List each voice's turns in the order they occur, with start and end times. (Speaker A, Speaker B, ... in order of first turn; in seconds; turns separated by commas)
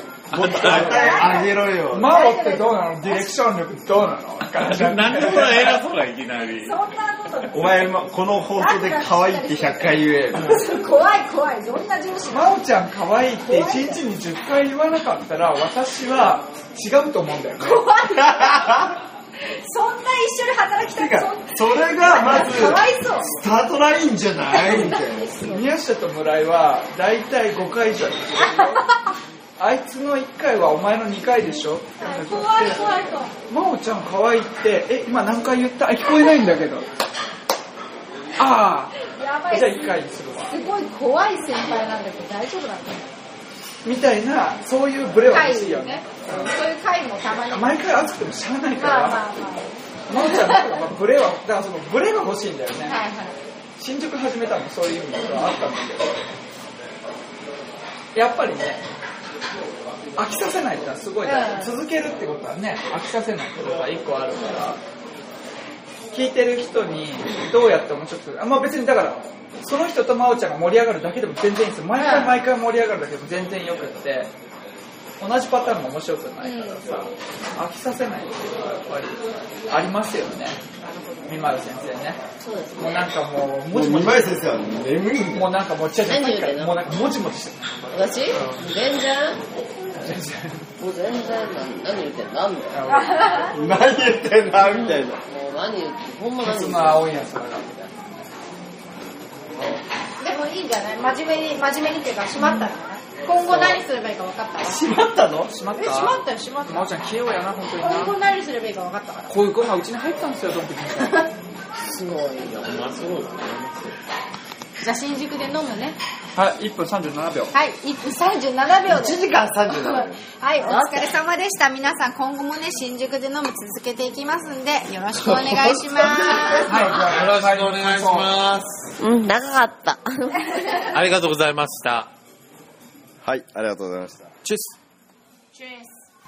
Speaker A: 0.3-1.4, Speaker B: 0.3-2.2, Speaker C: 0.5-3.2, Speaker D: 0.7-1.0, Speaker D: 1.9-5.8, Speaker A: 4.6-6.8, Speaker C: 6.5-8.0, Speaker B: 7.5-10.7, Speaker C: 8.5-12.5, Speaker D: 12.3-17.9, Speaker C: 13.4-14.0, Speaker C: 17.6-18.9, Speaker B: 18.1-18.9, Speaker C: 19.5-23.3, Speaker B: 21.1-25.3, Speaker D: 22.2-22.7, Speaker C: 24.4-25.6, Speaker D: 25.4-28.9, Speaker C: 28.4-29.1, Speaker D: 29.6-32.9, Speaker C: 32.0-33.3, Speaker D: 33.5-36.8, Speaker D: 38.4-39.0, Speaker C: 39.0-40.0, Speaker D: 39.5-40.6, Speaker C: 40.5-43.0, Speaker D: 43.8-46.5, Speaker C: 45.2-47.8, Speaker D: 47.5-49.2, Speaker C: 48.8-50.8, Speaker D: 50.1-53.0, Speaker C: 52.8-53.4, Speaker D: 53.8-56.2, Speaker D: 58.1-58.8, Speaker D: 60.2-64.8, Speaker C: 61.2-61.7, Speaker D: 66.1-74.3, Speaker C: 71.9-72.4, Speaker D: 75.2-80.6, Speaker C: 76.4-76.8, Speaker C: 80.8-81.4, Speaker D: 81.2-82.2, Speaker C: 82.4-82.8, Speaker D: 82.8-84.4, Speaker B: 83.7-85.5, Speaker D: 85.3-88.6, Speaker E: 86.0-87.0, Speaker E: 87.9-89.4, Speaker D: 90.0-90.7, Speaker E: 90.8-92.7, Speaker D: 92.7-93.5, Speaker C: 92.9-93.5, Speaker B: 93.5-95.2, Speaker E: 94.5-97.1, Speaker D: 96.4-98.0, Speaker C: 100.2-104.8, Speaker B: 103.3-103.8, Speaker B: 104.6-105.5, Speaker D: 105.5-108.1, Speaker C: 105.8-106.9, Speaker C: 107.8-109.3, Speaker D: 109.3-111.3, Speaker C: 111.0-111.3, Speaker E: 111.8-112.9, Speaker A: 112.6-114.0, Speaker C: 114.8-116.0, Speaker D: 116.3-117.5, Speaker C: 117.5-127.0, Speaker B: 118.8-120.2, Speaker E: 120.6-121.0, Speaker B: 125.1-126.7, Speaker D: 126.6-128.3, Speaker A: 126.7-128.9, Speaker E: 129.0-130.6, Speaker C: 130.5-130.9, Speaker A: 130.8-132.1, Speaker B: 133.2-134.7, Speaker C: 135.5-135.9